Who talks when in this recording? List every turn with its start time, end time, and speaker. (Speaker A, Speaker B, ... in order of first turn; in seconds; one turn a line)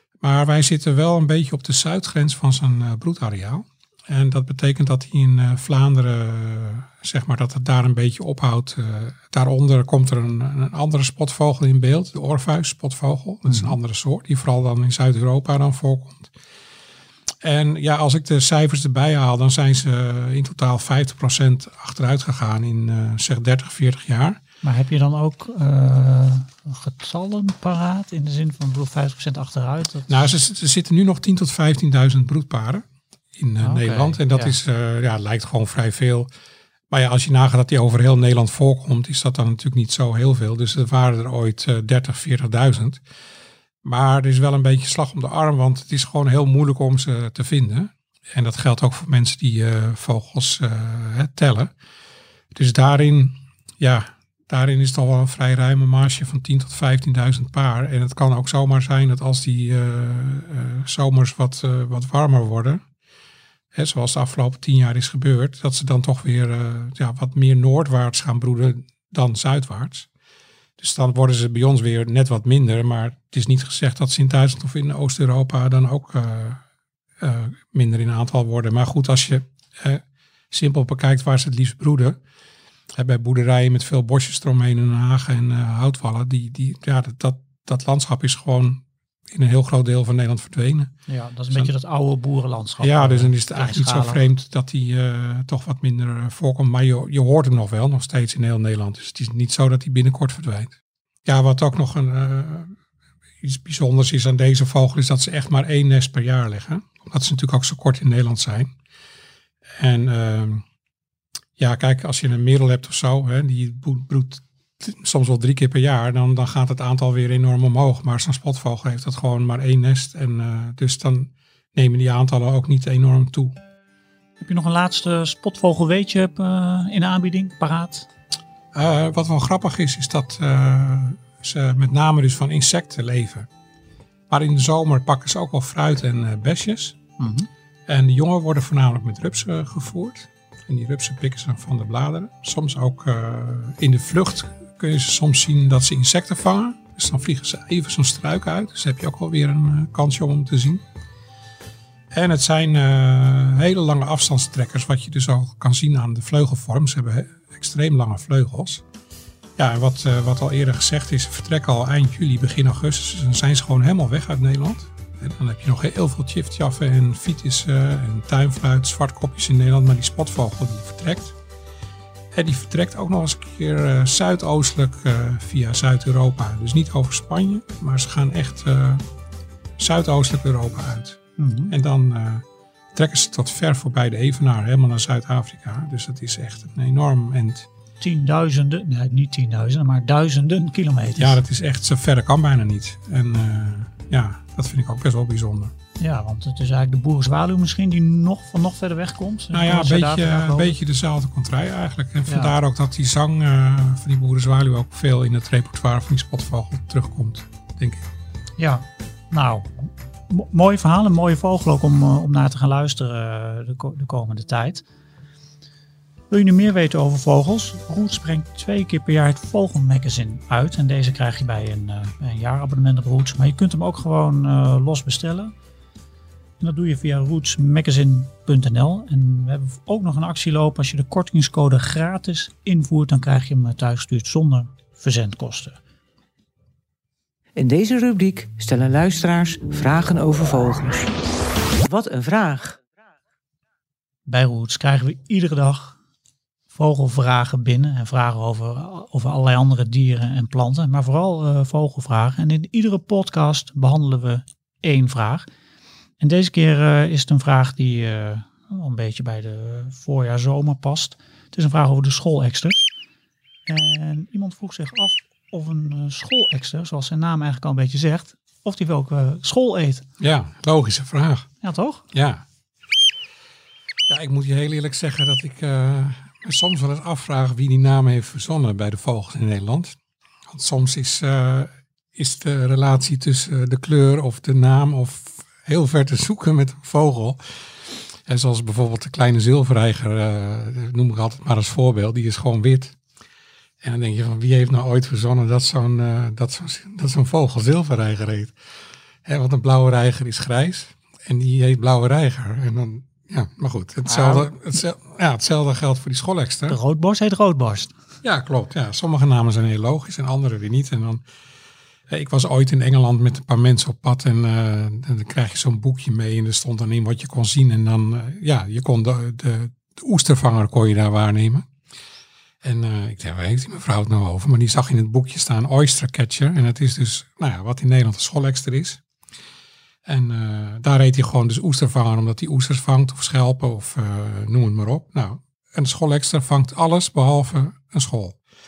Speaker A: 0.2-16.3
Speaker B: 13.5-13.8
Speaker A: 17.4-24.4
Speaker B: 24.6-30.1
Speaker A: 30.1-32.9
Speaker A: 33.4-36.3
Speaker B: 33.6-34.6
Speaker A: 36.9-43.0
Speaker A: 43.8-51.7
Speaker A: 52.5-62.8
Speaker A: 63.7-70.1
Speaker A: 70.8-76.6
Speaker A: 77.2-82.2
Speaker A: 82.9-90.9
Speaker B: 91.1-94.2
Speaker A: 92.8-102.7
Speaker A: 103.4-108.7
Speaker A: 109.8-110.6
Speaker A: 111.6-123.5
Speaker B: 124.4-128.1
Speaker A: 128.7-133.5
Speaker A: 134.3-137.0
Speaker B: 137.2-137.5
Speaker A: 137.9-150.8
Speaker A: 152.1-158.8
Speaker A: 159.6-171.4
Speaker A: 172.3-179.0
Speaker A: 179.8-187.7
Speaker B: 181.4-181.7
Speaker B: 188.0-191.4
Speaker A: 191.2-195.7
Speaker B: 196.0-200.8
Speaker A: 199.5-208.1
Speaker B: 202.3-202.6
Speaker B: 208.6-214.8
Speaker B: 216.3-225.5
Speaker B: 226.6-235.8
Speaker C: 237.6-241.1
Speaker C: 241.8-242.8
Speaker B: 244.3-246.0
Speaker B: 246.7-255.5
Speaker B: 256.2-262.9
Speaker B: 263.7-270.1
Speaker A: 270.2-271.5
Speaker B: 271.6-272.0
Speaker A: 272.1-272.4
Speaker A: 274.1-280.0
Speaker A: 280.5-293.0
Speaker A: 293.8-298.6
Speaker A: 299.2-306.8
Speaker B: 304.1-304.5
Speaker B: 306.7-307.9
Speaker A: 308.2-311.2
Speaker A: 312.1-321.7
Speaker A: 322.6-329.0
Speaker A: 330.1-338.4